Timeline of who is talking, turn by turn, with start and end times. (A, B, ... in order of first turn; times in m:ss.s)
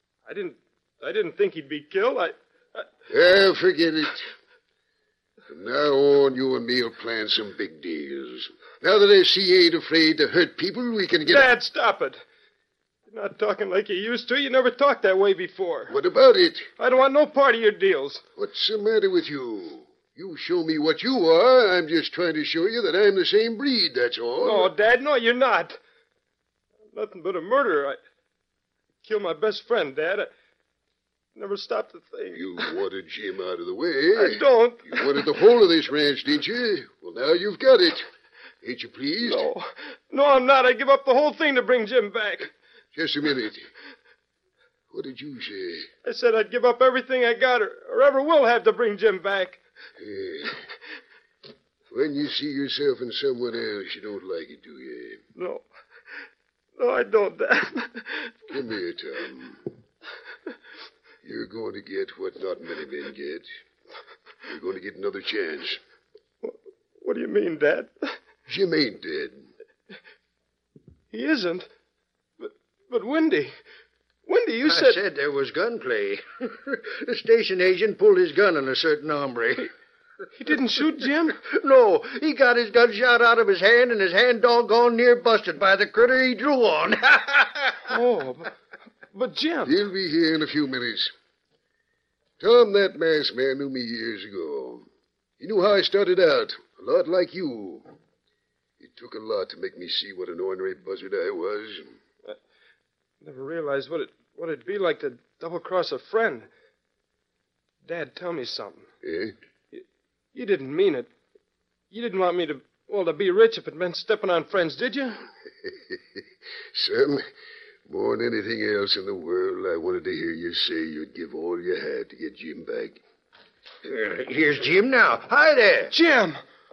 0:00.3-0:02.8 A
0:03.1-0:04.2 B
0:05.5-0:11.5 B
0:11.2-0:12.2 A
0:13.1-0:15.9 A
0:15.9-0:16.7 B
0:16.8-0:18.2 A
0:18.4-0:24.7 B
0:24.4-0:25.8 A
0:26.9-0:28.0 A
0:29.0-0:30.3 A
0:31.3-0:32.7 A
0:32.3-0:38.0 B
0:34.1-0:35.4 A
0:38.6-0:39.4 B
0:39.2-0:42.5 A
0:42.9-0:43.7 B
0:44.9-0:45.9 B
0:46.0-0:49.6 A
0:50.0-0:50.6 B
0:51.9-0:55.2 B
0:55.4-0:55.6 A
0:56.8-0:58.3 A
0:58.5-0:59.7 B
1:01.2-1:03.5 B
1:04.5-1:05.8 B
1:06.4-1:08.1 A
1:08.5-1:09.5 B
1:11.1-1:11.7 A
1:12.4-1:13.5 A
1:14.2-1:15.0 A
1:14.6-1:19.7 C
1:20.3-1:21.4 A
1:21.4-1:27.8 C
1:27.9-1:28.5 A
1:29.1-1:29.7 A
1:29.6-1:31.1 B
1:32.4-1:34.9 B
1:35.4-1:37.9 B
1:38.8-1:41.9 B
1:43.2-1:46.5 A
1:47.9-1:48.9 A
1:49.0-1:49.3 B
1:50.3-1:51.1 A
1:51.9-1:55.2 A
1:56.7-1:57.2 B
1:57.9-2:03.0 B
2:03.8-2:05.9 C
2:05.9-2:06.4 A